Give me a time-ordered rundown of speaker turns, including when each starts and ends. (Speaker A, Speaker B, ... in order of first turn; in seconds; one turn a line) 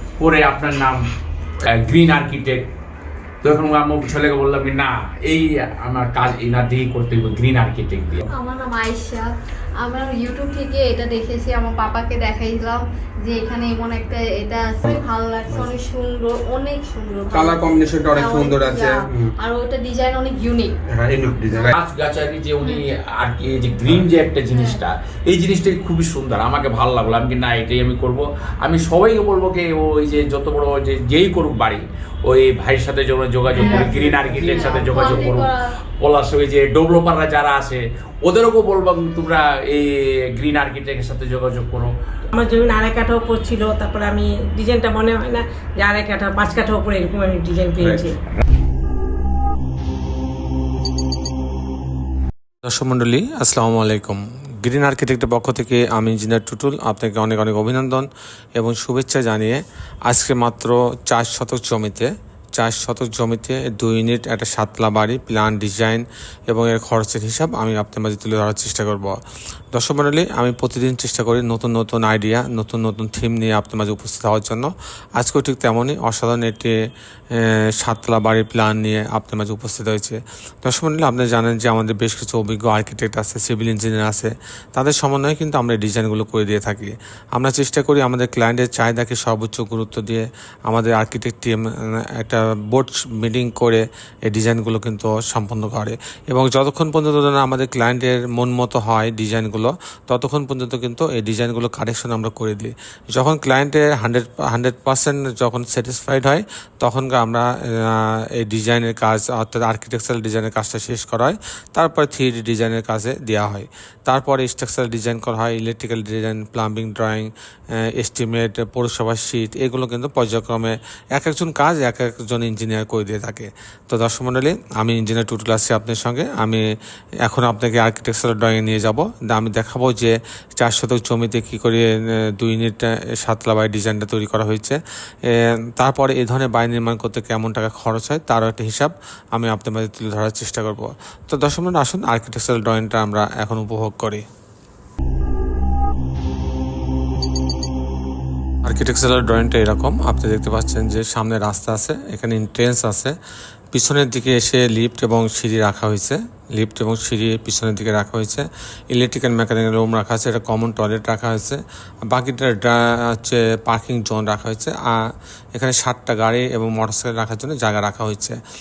Speaker A: 0.2-1.0
Speaker A: 1.6-2.7
Speaker A: 3.4-8.2
Speaker B: 8.3-9.3
Speaker B: 9.8-20.7
Speaker C: 14.8-15.7
Speaker C: 17.3-19.3
Speaker C: 20.9-21.7
Speaker B: 21.5-21.7
Speaker A: 21.6-41.9
Speaker B: 24.5-24.8
Speaker B: 33.5-35.6
Speaker D: 33.6-34.8
Speaker D: 42.3-48.1
Speaker A: 47.8-48.1
Speaker E: 52.6-69.2
Speaker E: 69.7-76.7
Speaker E: 77.3-126.6
Speaker E: 127.2-144.2
Speaker E: 148.6-153.1
Speaker E: 153.7-168.4